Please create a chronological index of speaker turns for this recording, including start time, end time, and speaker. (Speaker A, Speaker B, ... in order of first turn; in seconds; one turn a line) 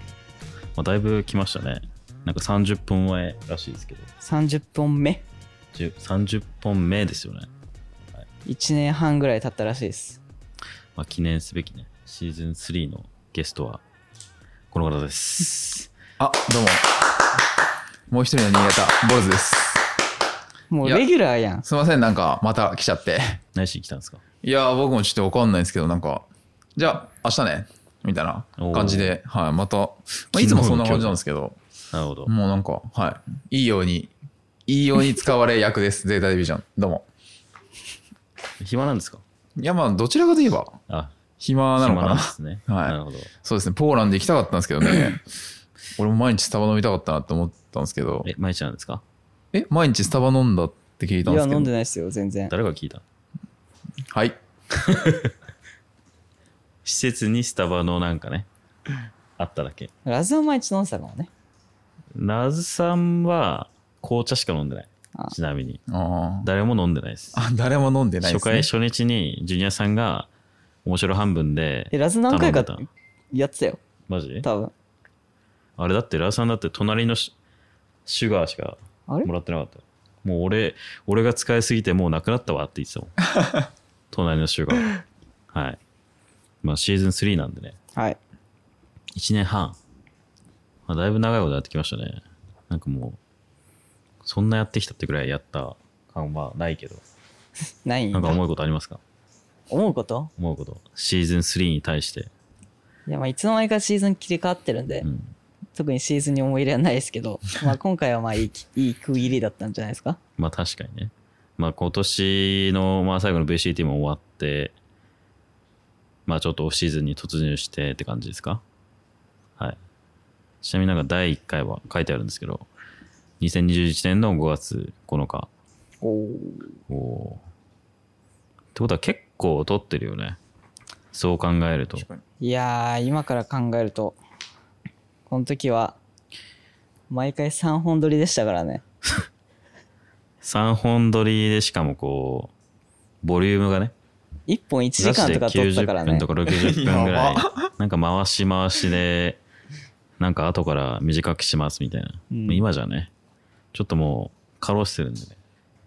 Speaker A: 0.7-4.1
Speaker B: 4.2-5.2
Speaker A: 5.7-7.5
Speaker B: 8.4-10.2
Speaker A: 10.9-13.8
Speaker A: 14.7-15.9
Speaker C: 16.2-16.9
Speaker C: 18.1-19.9
Speaker B: 20.7-21.6
Speaker C: 21.6-23.4
Speaker A: 23.5-24.2
Speaker C: 24.4-31.6
Speaker A: 28.6-29.2
Speaker A: 30.3-31.2
Speaker A: 31.9-32.3
Speaker C: 32.2-34.1
Speaker C: 34.7-37.0
Speaker A: 38.6-39.2
Speaker C: 39.6-40.8
Speaker A: 40.9-41.1
Speaker C: 41.4-45.2
Speaker A: 41.8-43.3
Speaker C: 46.0-48.3
Speaker A: 48.2-49.0
Speaker C: 49.5-51.7
Speaker B: 51.2-52.5
Speaker A: 52.5-53.0
Speaker C: 54.1-54.4
Speaker A: 54.7-55.3
Speaker A: 56.8-58.5
Speaker A: 59.4-59.9
Speaker B: 60.0-61.3
Speaker A: 62.1-65.8
Speaker C: 65.9-66.5
Speaker A: 66.4-67.4
Speaker C: 67.3-68.7
Speaker A: 68.2-70.3
Speaker A: 70.8-72.8
Speaker B: 71.9-73.8
Speaker A: 74.1-74.5
Speaker B: 74.4-74.7
Speaker A: 75.8-77.3
Speaker A: 78.0-83.3
Speaker A: 84.1-85.0
Speaker A: 85.5-85.8
Speaker A: 86.6-87.8
Speaker A: 89.1-89.8
Speaker A: 90.9-93.2
Speaker A: 94.2-97.0
Speaker B: 97.8-98.4
Speaker A: 98.1-99.0
Speaker B: 99.7-100.3
Speaker A: 100.4-102.3
Speaker B: 103.1-105.1
Speaker A: 105.0-105.3
Speaker B: 105.7-110.2
Speaker A: 110.4-114.7
Speaker A: 116.2-118.6
Speaker A: 120.6-122.7
Speaker A: 123.4-125.5
Speaker B: 126.0-126.7
Speaker A: 126.9-127.4
Speaker A: 128.7-130.4
Speaker A: 131.1-132.0
Speaker C: 131.9-132.2
Speaker B: 132.4-134.2
Speaker B: 135.3-136.0
Speaker B: 137.1-138.8
Speaker A: 140.4-142.5
Speaker A: 143.2-143.9
Speaker B: 144.5-146.2
Speaker A: 145.0-149.4
Speaker C: 146.4-147.7
Speaker A: 150.2-153.1
Speaker B: 152.3-152.6
Speaker A: 153.7-155.3